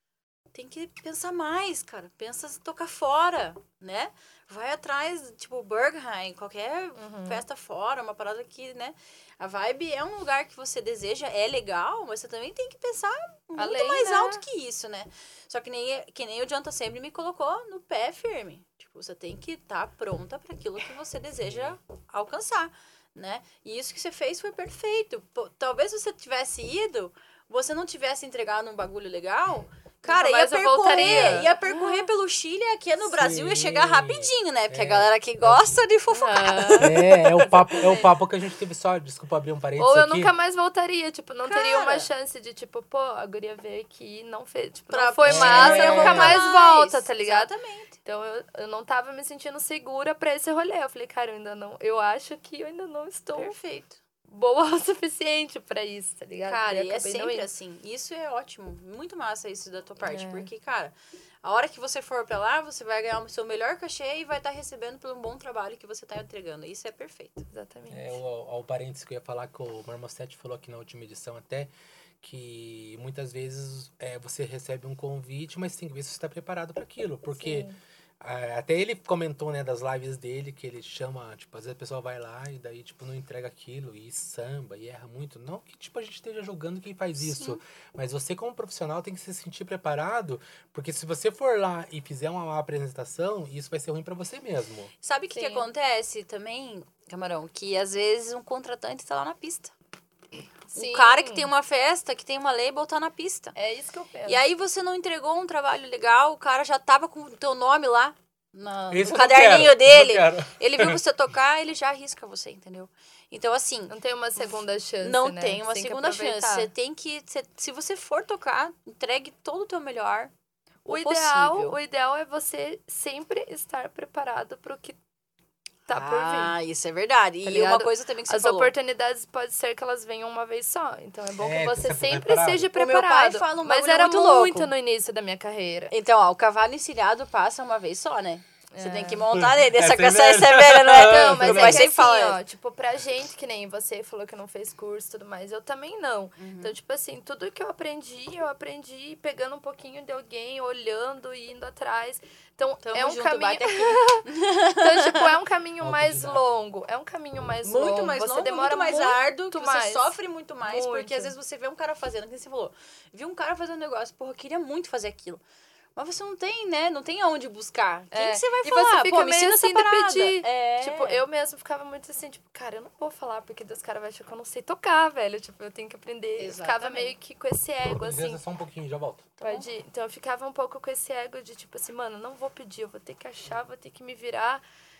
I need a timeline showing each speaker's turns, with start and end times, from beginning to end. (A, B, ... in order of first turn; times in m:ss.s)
0:00.5-0:37.0 A
0:07.0-0:07.4 B
0:13.6-0:14.4 B
0:21.4-0:21.8 C
0:30.0-0:32.0 B
0:33.0-0:35.6 C
0:36.1-0:38.1 B
0:36.8-0:40.3 C
0:39.8-0:47.5 B
0:41.4-0:42.1 A
0:44.9-0:48.0 A
0:45.2-0:46.4 C
0:48.0-0:53.6 B
0:53.4-0:54.0 A
0:54.3-0:57.5 B
0:56.4-1:07.4 A
1:00.0-1:00.5 B
1:07.5-1:08.2 B
1:07.9-1:17.7 C
1:17.4-1:17.8 B
1:18.2-1:34.9 C
1:27.2-1:27.6 A
1:35.0-1:39.7 A
1:35.3-1:35.7 B
1:40.7-1:41.5 B
1:40.7-1:43.6 A
1:43.6-1:44.4 B
1:44.2-1:53.9 A
1:48.9-1:51.0 C
1:53.9-1:56.7 B
1:55.0-2:00.3 A
2:00.8-2:01.8 A
2:00.8-2:05.0 B
2:05.9-2:06.5 B
2:05.9-2:08.7 A
2:07.4-2:15.9 B
2:11.4-2:12.7 C
2:12.8-2:14.7 A
2:15.9-2:22.4 A
2:18.7-2:19.3 B
2:19.3-2:21.8 C
2:21.0-2:41.3 B
2:26.4-2:26.7 A
2:32.8-2:35.2 A
2:35.8-2:36.4 C
2:37.6-2:45.4 A
2:46.0-2:51.2 A
2:48.1-2:58.4 B
2:56.4-2:57.1 A
2:57.9-2:59.4 C
2:59.4-3:04.6 B